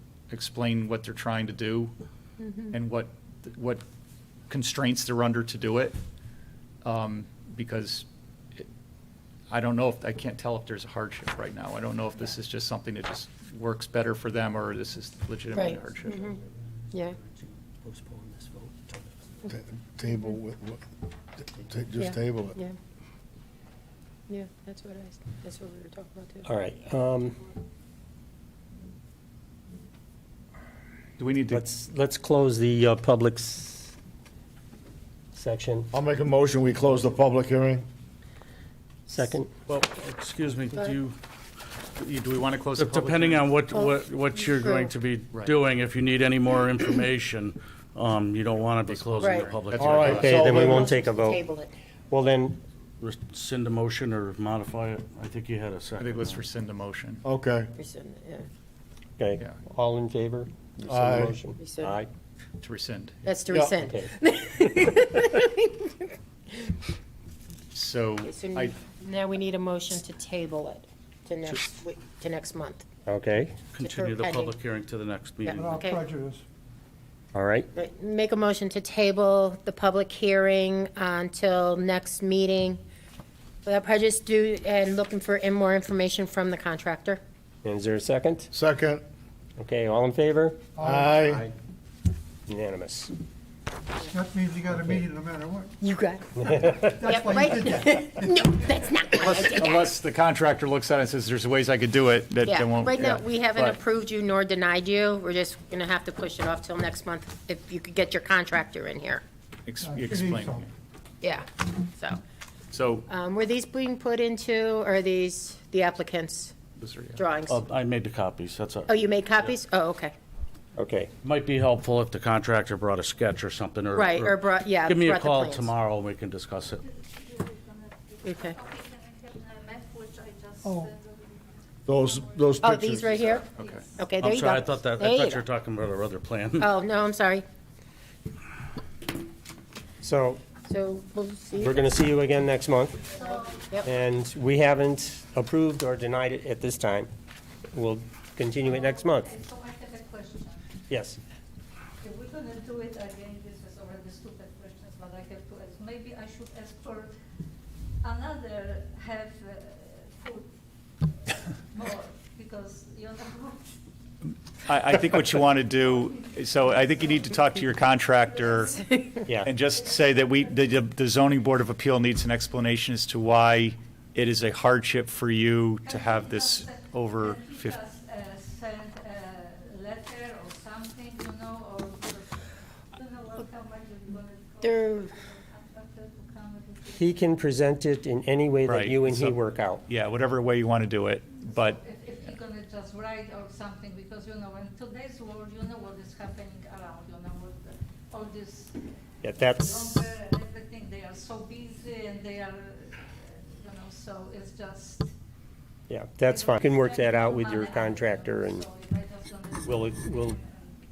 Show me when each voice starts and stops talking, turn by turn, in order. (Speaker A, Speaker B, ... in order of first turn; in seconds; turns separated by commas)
Speaker A: 0.3-1.9, Speaker B: 2.4-2.7, Speaker A: 2.7-3.8, Speaker A: 4.5-6.0, Speaker A: 6.8-8.1, Speaker A: 9.5-16.2, Speaker B: 15.5-16.4, Speaker B: 16.9-17.2, Speaker C: 17.8-19.1, Speaker D: 19.5-20.8, Speaker D: 21.6-22.6, Speaker B: 22.0-22.8, Speaker B: 24.3-26.5, Speaker C: 26.4-27.4, Speaker A: 31.2-31.6, Speaker C: 31.5-34.0, Speaker C: 35.3-35.9, Speaker D: 35.9-37.8, Speaker C: 39.1-39.5, Speaker E: 39.7-41.2, Speaker A: 42.0-43.5, Speaker E: 42.8-50.3, Speaker B: 43.7-44.9, Speaker A: 48.8-50.5, Speaker B: 49.2-49.5, Speaker D: 49.8-50.9, Speaker C: 50.1-51.4, Speaker B: 50.4-51.7, Speaker C: 52.1-52.6, Speaker E: 53.0-56.5, Speaker A: 56.0-57.2, Speaker D: 57.2-57.7, Speaker B: 57.8-58.5, Speaker C: 59.2-62.1, Speaker D: 60.9-61.4, Speaker B: 61.6-62.0, Speaker A: 62.6-63.2, Speaker B: 63.2-66.1, Speaker C: 63.8-64.1, Speaker A: 67.7-68.8, Speaker B: 68.2-72.8, Speaker C: 73.1-73.5, Speaker E: 73.7-75.8, Speaker B: 73.8-74.5, Speaker B: 75.4-76.1, Speaker F: 75.6-76.4, Speaker C: 77.3-77.7, Speaker B: 77.7-82.8, Speaker B: 83.7-87.2, Speaker C: 87.6-88.5, Speaker D: 88.5-89.0, Speaker C: 89.6-91.5, Speaker F: 90.8-91.1, Speaker D: 90.8-91.5, Speaker C: 92.5-93.1, Speaker F: 94.1-95.7, Speaker B: 95.8-99.9, Speaker C: 96.5-96.8, Speaker F: 96.8-97.9, Speaker A: 99.2-103.8, Speaker B: 102.5-109.2, Speaker A: 109.7-110.7, Speaker F: 109.8-110.7, Speaker B: 111.2-112.2, Speaker A: 112.7-113.1, Speaker B: 113.1-116.6, Speaker A: 116.8-117.2, Speaker B: 117.2-117.6, Speaker E: 117.5-119.5, Speaker B: 118.9-120.1, Speaker C: 120.8-121.1, Speaker E: 121.2-126.8, Speaker B: 123.9-125.7, Speaker G: 126.9-132.3, Speaker B: 128.2-128.6, Speaker F: 130.6-130.9, Speaker D: 131.9-133.4, Speaker B: 132.6-135.4, Speaker A: 133.5-133.9, Speaker G: 133.6-134.0, Speaker E: 134.2-136.7, Speaker B: 136.6-137.4, Speaker C: 140.0-140.4, Speaker B: 140.6-141.9, Speaker C: 141.6-143.1, Speaker G: 143.1-143.6, Speaker C: 143.8-147.1, Speaker C: 147.7-149.3, Speaker G: 148.6-150.7, Speaker C: 150.9-151.2, Speaker G: 152.0-157.2, Speaker G: 158.0-160.5, Speaker G: 161.3-163.8, Speaker A: 164.7-168.8, Speaker G: 166.8-167.3, Speaker G: 168.2-169.2, Speaker B: 168.8-169.2, Speaker C: 169.3-169.5, Speaker A: 169.4-177.8, Speaker G: 169.8-170.4, Speaker G: 175.9-187.1, Speaker B: 184.6-185.1, Speaker C: 186.9-189.8, Speaker A: 188.7-191.8, Speaker G: 191.5-198.8, Speaker C: 199.2-200.1, Speaker G: 199.5-205.1, Speaker C: 205.9-208.7, Speaker G: 206.3-210.8, Speaker C: 209.7-210.4